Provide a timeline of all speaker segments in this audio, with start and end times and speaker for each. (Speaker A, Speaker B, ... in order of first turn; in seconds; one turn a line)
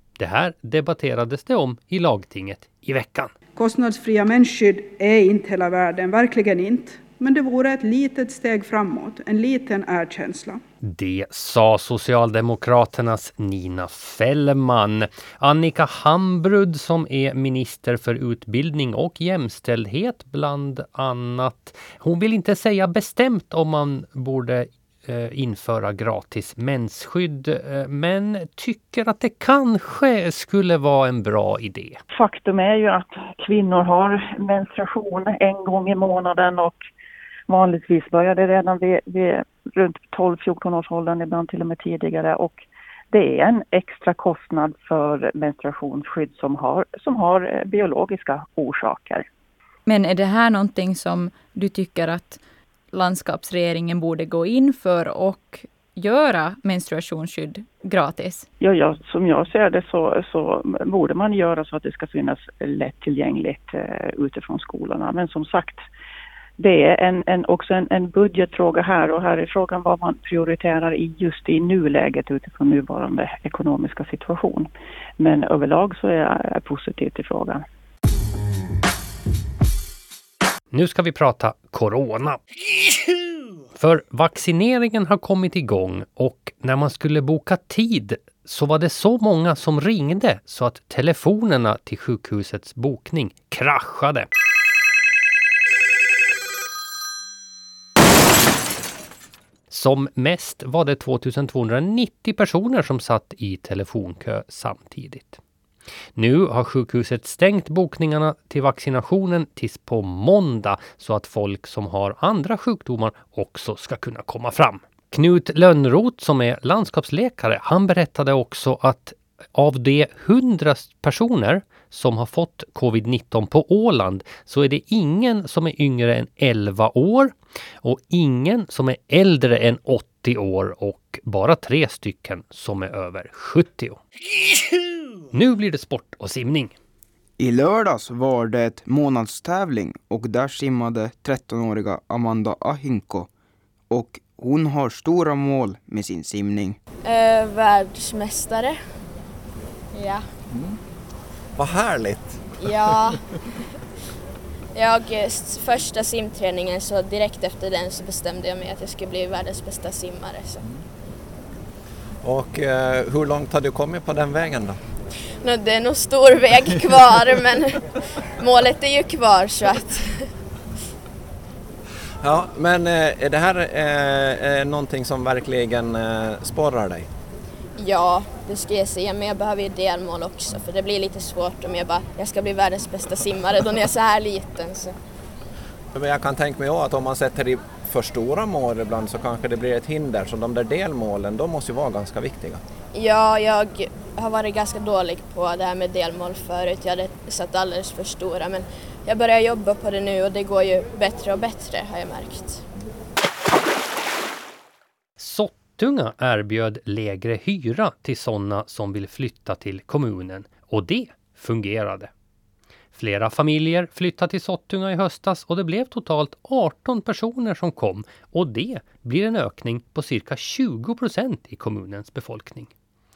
Speaker A: 0.2-3.3
Speaker B: 3.6-10.6
Speaker A: 10.8-32.0
Speaker C: 32.1-36.9
Speaker C: 37.5-49.3
Speaker D: 49.9-52.3
Speaker D: 52.9-58.4
Speaker C: 58.6-65.8
Speaker C: 66.6-77.6
Speaker A: 80.7-82.4
Speaker A: 83.8-94.3
Speaker A: 99.7-105.4
Speaker A: 106.2-134.0
Speaker A: 135.3-136.7
Speaker E: 137.4-143.3
Speaker E: 143.9-146.8
Speaker F: 147.0-148.8
Speaker F: 149.9-150.2
Speaker G: 150.5-150.8
Speaker G: 151.6-153.0
Speaker F: 152.6-153.2
Speaker F: 154.8-160.6
Speaker G: 162.2-164.8
Speaker F: 165.4-167.8
Speaker F: 168.4-170.1
Speaker G: 172.2-177.1
Speaker F: 177.8-184.9
Speaker G: 185.9-192.6
Speaker F: 192.9-202.7
Speaker A: 205.2-212.1
Speaker A: 212.9-222.7